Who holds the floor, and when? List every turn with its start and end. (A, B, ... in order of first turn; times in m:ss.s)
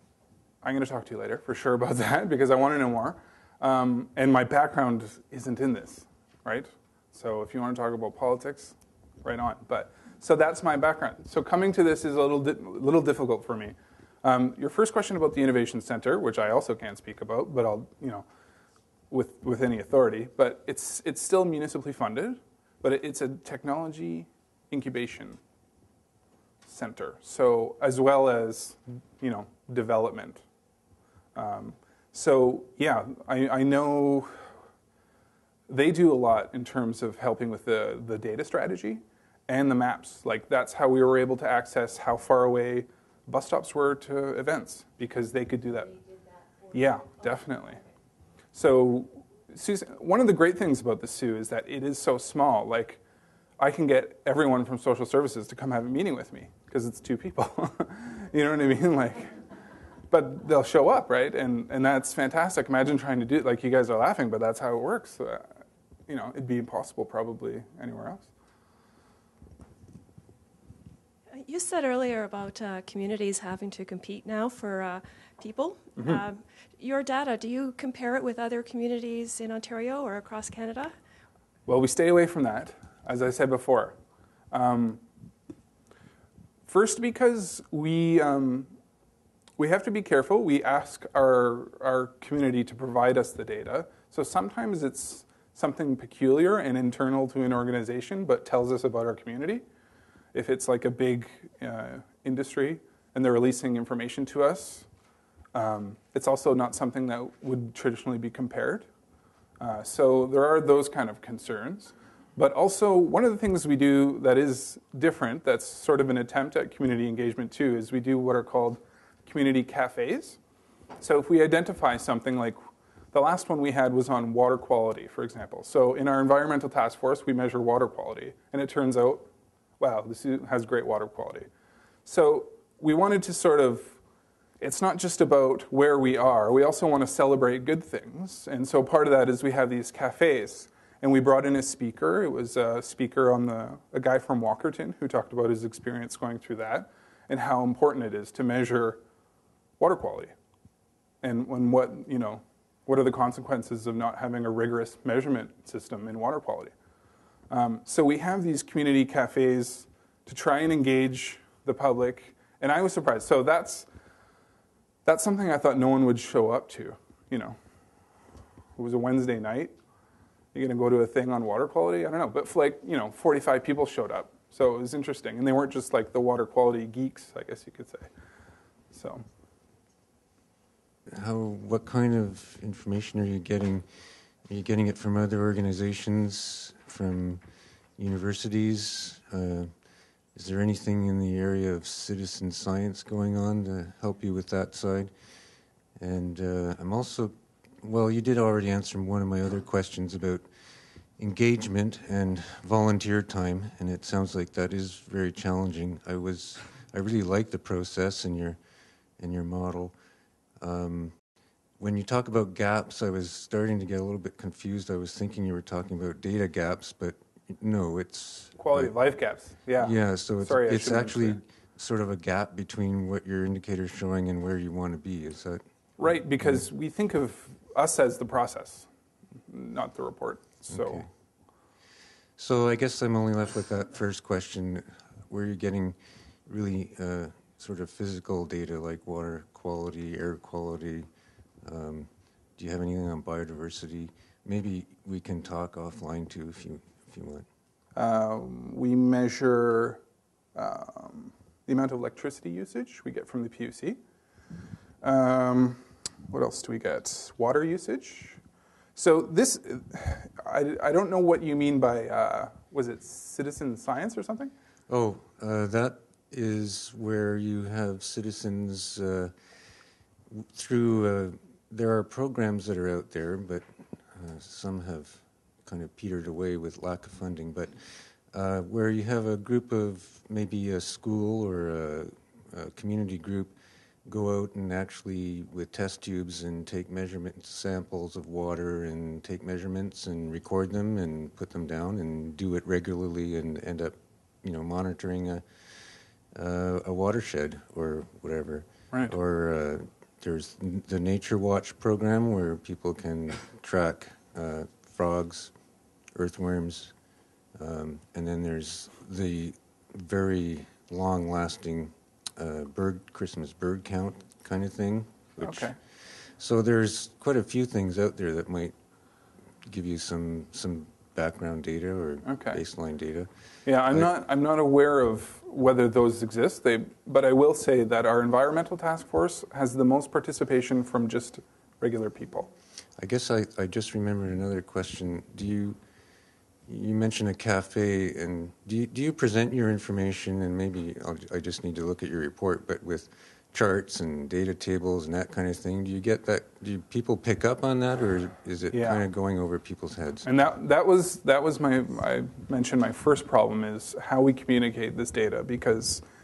0:00.6-0:18.2 A
0:19.1-0:25.4 A
0:26.7-0:30.4 A
0:31.4-0:34.3 A
0:35.7-0:46.0 A
0:46.7-0:47.8 A
0:48.5-0:53.0 A
0:53.6-0:59.3 A
1:00.1-1:05.5 A
1:06.1-1:08.3 A
1:11.4-1:21.0 B
1:21.7-1:24.0 A
1:24.5-1:25.0 A
1:26.7-1:28.7 A
1:29.6-1:39.6 A
1:40.3-1:44.9 A
1:45.5-1:48.9 A
1:49.6-2:00.4 A
2:01.0-2:02.6 A
2:03.1-2:09.3 A
2:09.8-2:11.5 A
2:12.1-2:14.0 A
2:14.6-2:29.0 A
2:29.8-2:30.3 A
2:31.2-2:36.7 A
2:37.5-2:43.9 A
2:45.0-2:47.6 A
2:48.8-2:49.8 A
2:50.5-2:58.1 A
2:58.9-2:59.2 A
3:01.1-3:03.9 C
3:04.5-3:07.4 C
3:08.0-3:09.7 C
3:10.4-3:15.1 C
3:16.0-3:20.5 C
3:21.2-3:28.6 C
3:29.2-3:29.9 C
3:30.6-3:31.2 C
3:31.8-3:38.9 C
3:38.6-3:41.4 A
3:39.8-3:45.6 C
3:46.0-3:48.9 A
3:49.5-3:51.0 A
3:50.7-3:51.1 C
3:52.4-3:56.0 C
3:56.5-4:01.1 C
4:01.6-4:07.5 C
4:08.0-4:10.0 A
4:10.6-4:14.0 A
4:15.0-4:18.4 A
4:19.0-4:24.5 A
4:24.9-4:29.3 C
4:30.3-4:37.7 C
4:38.3-4:43.5 C
4:44.1-4:55.4 C
4:56.3-5:05.5 C
5:06.1-5:06.9 C
5:07.6-5:15.8 C
5:15.4-5:15.8 A
5:16.4-5:18.8 C
5:19.7-5:23.3 C
5:22.2-5:22.6 A
5:23.7-5:32.5 A
5:33.0-5:35.8 C
5:36.7-5:50.3 C
5:48.7-5:49.0 A
5:50.2-5:56.0 A